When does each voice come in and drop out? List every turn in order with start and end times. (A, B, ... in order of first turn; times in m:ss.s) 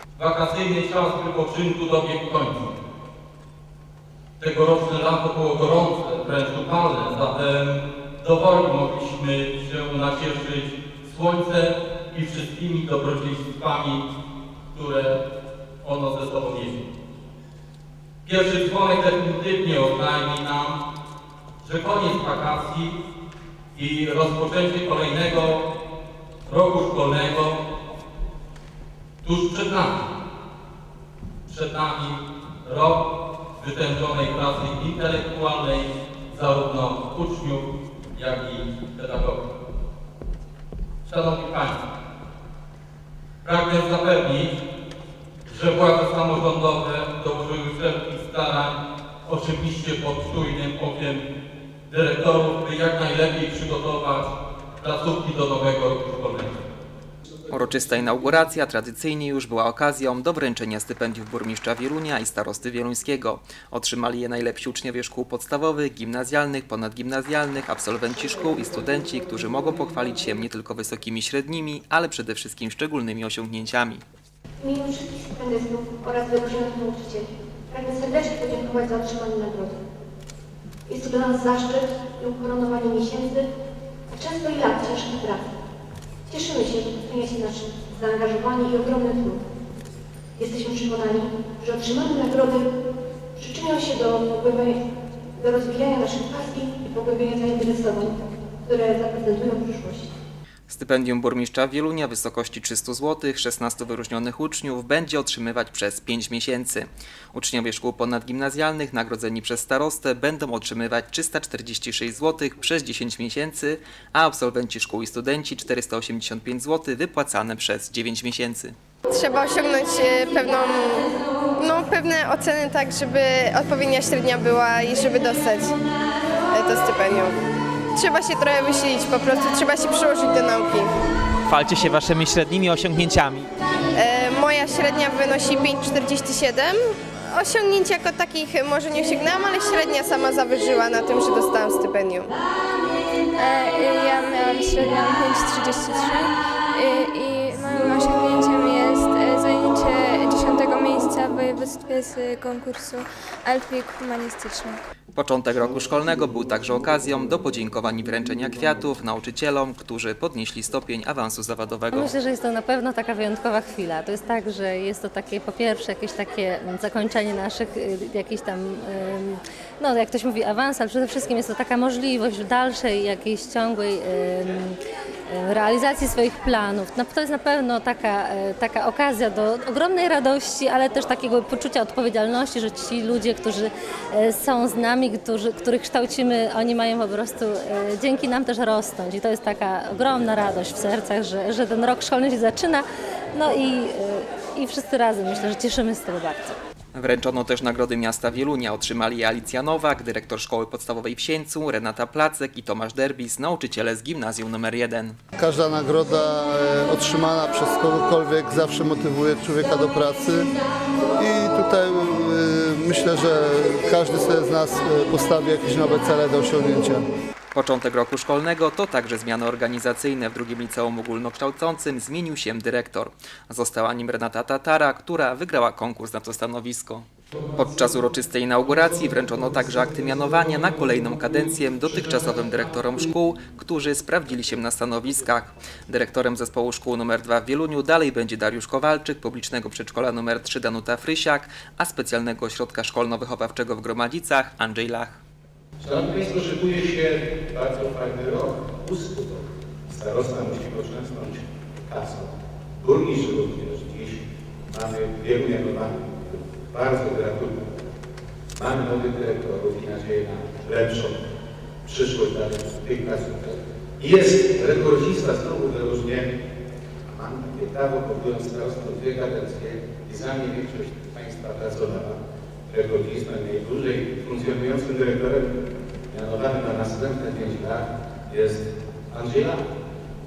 0:00.2-0:02.7 A
0:04.4-0:14.0 A
0:14.7-0:15.2 A
0:15.8-0:16.8 A
0:18.2-0:20.8 A
0:21.6-0:23.0 A
0:23.8-0:25.6 A
0:26.5-0:27.6 A
0:29.2-0:30.0 A
0:31.5-0:33.0 A
0:33.6-0:37.6 A
0:38.2-0:39.4 A
0:41.0-0:41.8 A
0:43.4-0:44.5 A
0:45.5-0:48.8 A
0:49.3-0:51.2 A
0:51.9-0:54.3 A
0:54.8-0:56.6 A
0:57.5-1:14.0 B
1:14.6-1:19.8 C
1:20.9-1:23.4 C
1:24.1-1:25.5 C
1:26.3-1:29.4 C
1:30.4-1:32.6 C
1:33.4-1:34.8 C
1:35.4-1:40.1 C
1:40.7-1:58.8 B
1:59.1-2:05.8 D
2:06.5-2:07.3 D
2:07.9-2:10.9 D
2:11.5-2:13.5 E
2:14.0-2:22.3 D
2:23.3-2:34.8 F
2:35.1-2:42.1 B
2:41.9-2:54.8 G
2:55.3-3:16.5 G
3:16.9-3:25.2 B
3:25.4-3:30.5 H
3:31.1-3:37.1 H
3:37.5-4:05.2 B
4:05.8-4:14.2 I
4:14.7-4:17.6 I
4:18.6-4:21.2 I
4:21.8-4:26.3 I
4:27.0-4:35.5 I
4:36.1-4:39.6 I